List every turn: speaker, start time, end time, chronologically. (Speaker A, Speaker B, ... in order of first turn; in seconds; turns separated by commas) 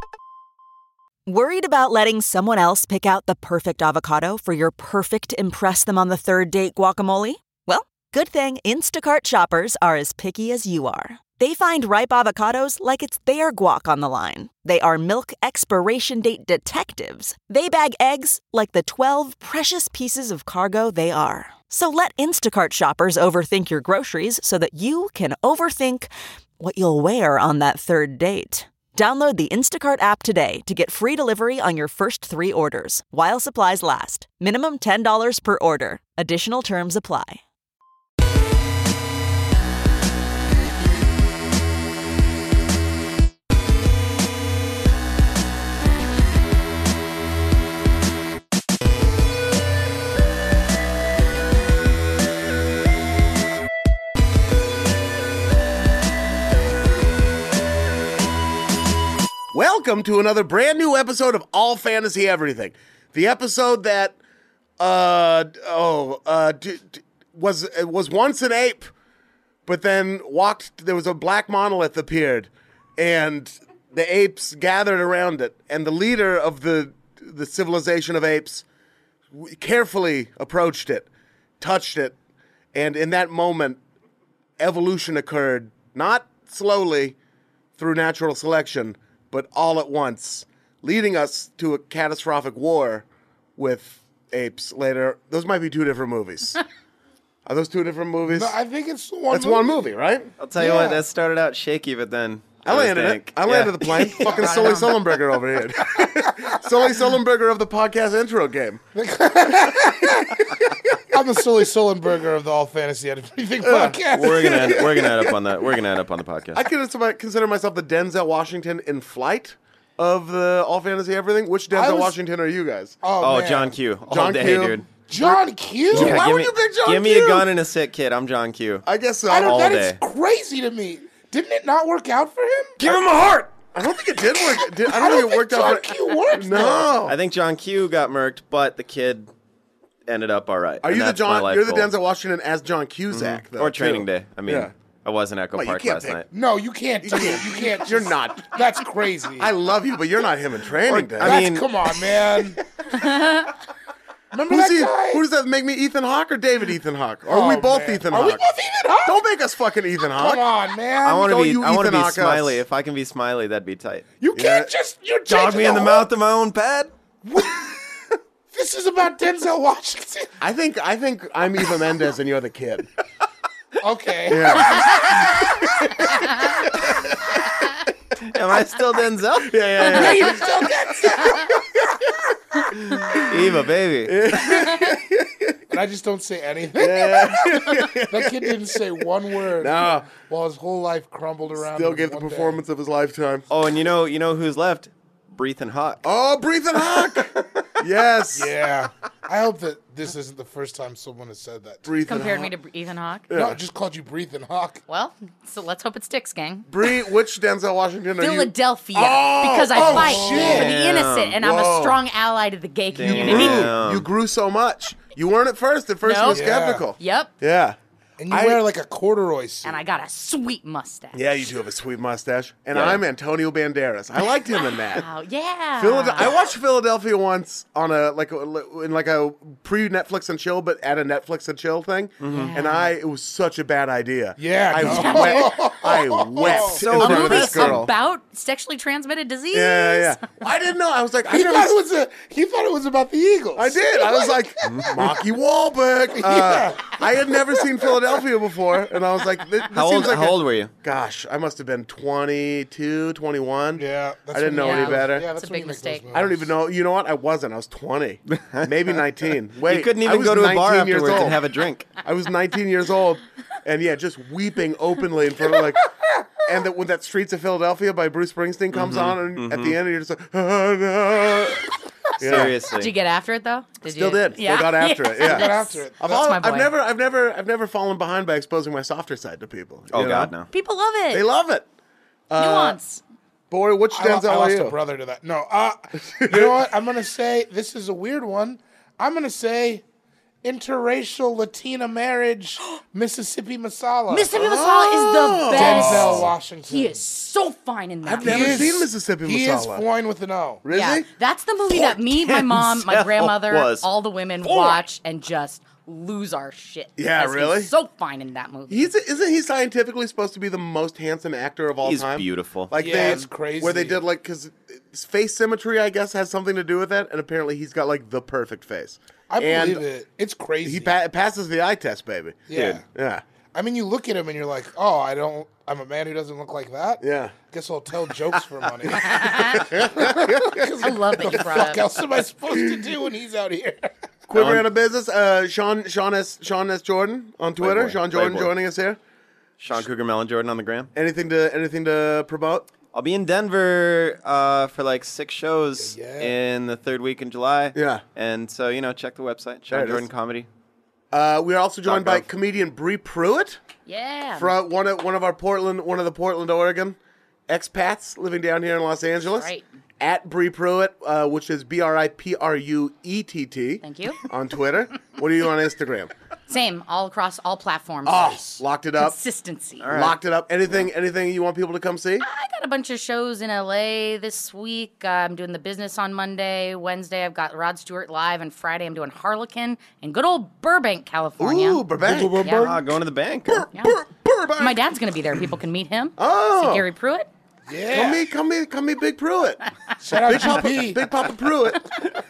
Speaker A: 1.3-37.4, Speaker B: 59.5-64.2, Speaker B: 64.8-68.9, Speaker B: 69.7-78.6, Speaker B: 79.3-81.1, Speaker B: 81.6-82.2, Speaker B: 82.7-83.8, Speaker B: 84.6-87.2, Speaker B: 87.8-93.0, Speaker B: 93.6-96.6, Speaker B: 97.5-98.5, Speaker C: 98.3-99.9, Speaker B: 99.3-100.3, Speaker D: 100.4-104.1, Speaker C: 100.5-101.0, Speaker B: 102.6-108.8, Speaker E: 104.2-104.9, Speaker C: 104.4-104.7, Speaker C: 108.9-114.9, Speaker B: 110.7-111.2, Speaker B: 113.6-115.4, Speaker D: 114.1-116.6, Speaker B: 116.5-123.0, Speaker C: 121.7-122.1, Speaker C: 123.0-123.7, Speaker D: 123.2-124.9, Speaker B: 124.1-127.5, Speaker C: 125.1-126.2, Speaker D: 125.9-128.8, Speaker B: 128.8-129.7, Speaker C: 129.3-132.9, Speaker D: 129.4-130.0, Speaker B: 132.8-137.2, Speaker C: 134.8-136.9, Speaker D: 137.1-139.3, Speaker D: 140.1-141.9, Speaker B: 140.8-144.7, Speaker D: 143.1-146.2, Speaker B: 145.5-146.2, Speaker C: 146.3-149.5, Speaker B: 147.0-148.6, Speaker B: 149.4-151.4, Speaker D: 150.8-151.7, Speaker C: 151.2-152.6, Speaker E: 152.9-153.5, Speaker C: 154.3-155.2, Speaker B: 154.5-158.4, Speaker C: 157.3-159.2, Speaker B: 159.0-160.4, Speaker C: 160.1-161.3, Speaker D: 161.0-164.1, Speaker B: 161.1-162.6, Speaker C: 164.2-166.1, Speaker B: 164.3-164.7, Speaker D: 165.3-166.9, Speaker C: 167.2-167.8, Speaker C: 168.5-170.3, Speaker B: 170.4-172.9, Speaker C: 173.8-175.5, Speaker B: 174.3-177.3, Speaker D: 178.2-180.4, Speaker B: 179.4-182.0, Speaker C: 179.9-181.5, Speaker B: 182.7-185.6, Speaker D: 183.1-184.1, Speaker C: 185.7-192.6, Speaker B: 186.8-190.1, Speaker B: 191.6-193.5, Speaker D: 193.5-196.0, Speaker B: 196.0-198.5, Speaker D: 197.1-197.6, Speaker C: 198.3-201.8, Speaker B: 201.8-202.5, Speaker E: 202.1-203.2, Speaker B: 203.3-203.6, Speaker C: 203.3-204.8, Speaker E: 204.9-206.7, Speaker B: 206.7-210.7, Speaker E: 208.2-213.7, Speaker C: 209.7-210.7, Speaker D: 210.3-211.4, Speaker B: 211.4-212.0, Speaker D: 212.9-214.1, Speaker B: 213.0-217.8, Speaker E: 216.0-217.3, Speaker C: 216.3-216.9, Speaker C: 218.2-219.8, Speaker B: 218.3-218.6, Speaker E: 219.6-221.3, Speaker B: 221.1-225.1, Speaker D: 222.7-223.0, Speaker E: 224.7-226.4, Speaker B: 225.8-237.9, Speaker D: 232.2-232.5, Speaker E: 232.3-232.9, Speaker C: 234.4-236.8, Speaker E: 234.8-235.5, Speaker D: 236.4-237.9, Speaker E: 236.9-240.2, Speaker B: 239.5-241.8, Speaker C: 241.3-245.2, Speaker B: 243.6-255.3, Speaker C: 246.1-247.6, Speaker D: 249.7-250.7, Speaker C: 253.8-256.5, Speaker E: 254.6-256.0, Speaker B: 256.1-261.4, Speaker D: 258.3-258.7, Speaker D: 259.6-261.9, Speaker B: 262.0-265.8, Speaker B: 266.4-272.6, Speaker D: 268.7-269.8, Speaker D: 272.2-272.9, Speaker E: 272.7-276.7, Speaker B: 273.8-280.3, Speaker C: 275.2-276.0, Speaker D: 279.9-280.5, Speaker E: 280.5-281.3, Speaker B: 281.1-281.7, Speaker B: 282.3-282.8, Speaker E: 282.4-283.0, Speaker B: 283.5-284.8, Speaker C: 283.9-289.8, Speaker B: 286.0-286.6, Speaker C: 290.4-294.3, Speaker E: 294.1-298.8, Speaker B: 294.3-296.3, Speaker C: 295.5-297.0, Speaker B: 298.0-299.9, Speaker C: 298.2-300.6, Speaker B: 300.6-301.1, Speaker E: 300.7-308.9, Speaker D: 301.7-303.8, Speaker D: 304.4-304.8, Speaker B: 307.0-307.7, Speaker B: 308.7-319.8, Speaker D: 311.8-312.7, Speaker C: 312.7-314.0, Speaker E: 312.9-313.2, Speaker C: 319.3-320.9, Speaker B: 320.6-323.2, Speaker C: 322.5-322.8, Speaker D: 322.5-322.8, Speaker C: 323.5-333.9, Speaker B: 327.0-327.3, Speaker B: 328.3-330.8, Speaker E: 329.0-329.6, Speaker E: 330.8-331.9, Speaker B: 332.5-332.8, Speaker B: 334.3-339.0, Speaker D: 334.3-334.6, Speaker D: 337.6-338.5, Speaker D: 339.6-340.9, Speaker B: 340.9-342.7, Speaker D: 342.9-350.5, Speaker C: 345.8-346.3, Speaker B: 347.7-348.0, Speaker B: 349.7-350.1, Speaker B: 351.1-353.6, Speaker D: 351.9-352.3, Speaker E: 353.9-354.5, Speaker B: 354.4-357.0, Speaker B: 357.5-366.1, Speaker E: 359.4-359.6, Speaker E: 363.8-364.2, Speaker E: 366.5-369.9, Speaker B: 368.0-369.2, Speaker D: 369.8-370.1, Speaker B: 369.9-372.2, Speaker E: 372.2-381.8, Speaker B: 381.4-382.4, Speaker C: 382.0-382.9, Speaker E: 382.4-382.7, Speaker D: 382.4-383.7, Speaker B: 383.5-384.8, Speaker E: 384.6-387.3, Speaker B: 386.2-386.9, Speaker C: 387.7-388.2, Speaker B: 387.9-389.6, Speaker C: 390.0-391.0, Speaker B: 390.2-391.9